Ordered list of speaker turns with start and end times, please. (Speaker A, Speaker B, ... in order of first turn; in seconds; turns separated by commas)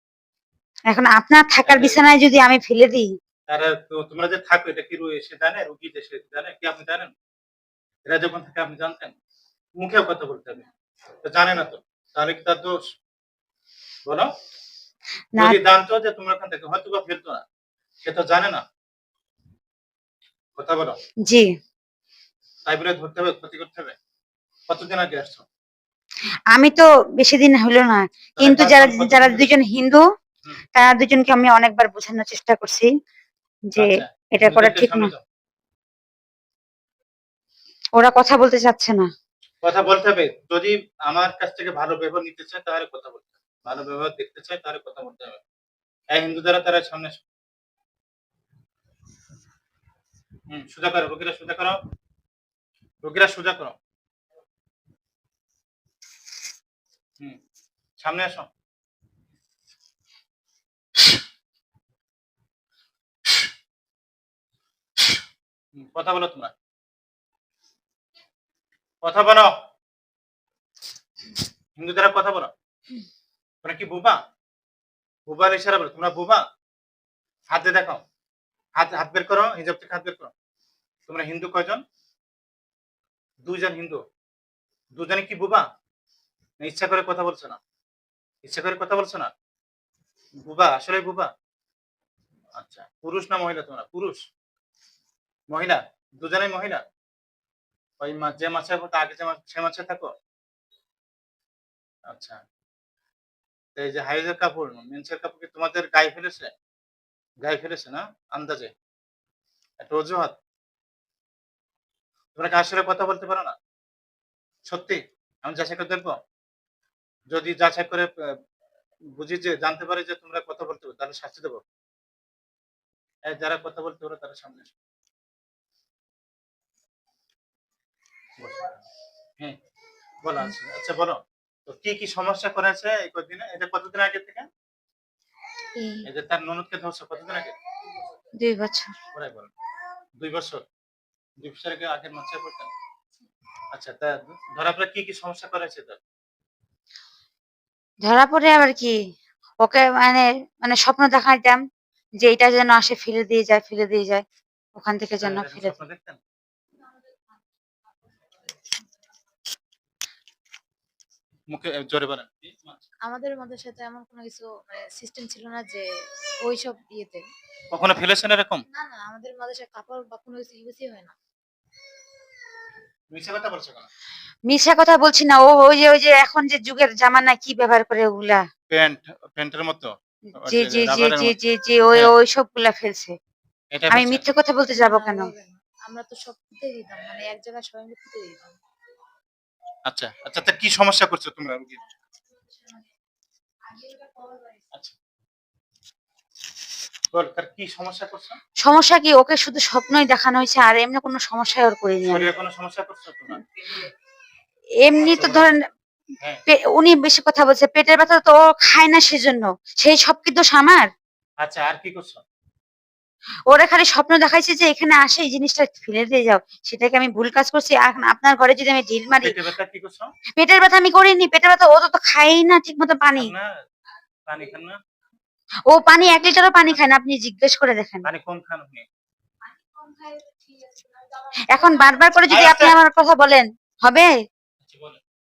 Speaker A: 0.9-3.1, Speaker B: 1.7-2.0, Speaker B: 3.5-7.1, Speaker B: 8.1-9.1, Speaker B: 9.8-10.7, Speaker B: 11.2-12.7, Speaker B: 15.4-17.4, Speaker B: 18.0-18.6, Speaker B: 20.6-20.9, Speaker B: 22.6-23.9, Speaker B: 24.7-25.4, Speaker A: 26.5-30.0, Speaker B: 28.4-29.5, Speaker A: 30.7-32.9, Speaker A: 33.7-35.1, Speaker B: 33.8-35.2, Speaker A: 38.0-39.1, Speaker B: 39.6-45.4, Speaker B: 46.1-47.2, Speaker B: 50.5-51.8, Speaker B: 53.0-53.7, Speaker B: 58.0-58.5, Speaker B: 65.7-66.5, Speaker B: 69.0-69.5, Speaker B: 71.8-72.5, Speaker B: 73.6-74.2, Speaker B: 75.3-76.4, Speaker B: 77.5-78.0, Speaker B: 78.8-80.3, Speaker B: 81.1-81.8, Speaker B: 83.4-84.0, Speaker B: 84.9-85.6, Speaker B: 86.6-87.6, Speaker B: 88.4-89.3, Speaker B: 90.4-91.3, Speaker B: 92.6-94.2, Speaker B: 95.5-96.8, Speaker B: 98.0-100.1, Speaker B: 102.1-102.4, Speaker B: 103.8-106.5, Speaker B: 107.4-108.7, Speaker B: 109.8-110.3, Speaker B: 112.3-113.5, Speaker B: 114.7-116.1, Speaker B: 117.3-118.1, Speaker B: 119.2-121.6, Speaker B: 123.3-124.7, Speaker B: 128.4-128.8, Speaker B: 130.2-134.4, Speaker A: 135.8-136.0, Speaker B: 136.1-137.5, Speaker A: 138.4-138.9, Speaker B: 139.1-139.5, Speaker B: 140.2-140.6, Speaker B: 141.4-142.7, Speaker B: 143.7-146.0, Speaker A: 148.0-148.9, Speaker A: 149.6-151.6, Speaker A: 152.2-154.2, Speaker A: 154.8-155.8, Speaker B: 155.2-156.2, Speaker C: 158.0-159.1, Speaker B: 161.5-162.8, Speaker C: 163.0-165.8, Speaker C: 166.4-167.2, Speaker B: 167.7-168.6, Speaker C: 168.7-171.1, Speaker B: 173.1-173.9, Speaker A: 174.5-178.4, Speaker B: 178.7-181.3, Speaker A: 180.4-183.1, Speaker B: 183.7-184.2, Speaker A: 183.9-185.3, Speaker C: 184.7-188.6, Speaker B: 189.9-191.8, Speaker C: 192.4-192.8, Speaker C: 193.7-194.7, Speaker B: 197.1-198.4, Speaker A: 198.6-202.3, Speaker B: 202.1-203.4, Speaker A: 204.8-205.6, Speaker B: 205.1-205.5, Speaker A: 206.5-210.9, Speaker B: 211.4-212.2, Speaker A: 213.5-219.4, Speaker B: 219.2-220.1, Speaker A: 220.4-223.3, Speaker B: 223.2-223.5, Speaker B: 224.3-224.8, Speaker A: 225.7-228.1, Speaker B: 228.0-228.8, Speaker C: 229.5-232.2, Speaker A: 231.5-234.1, Speaker B: 232.3-232.7, Speaker B: 234.6-235.0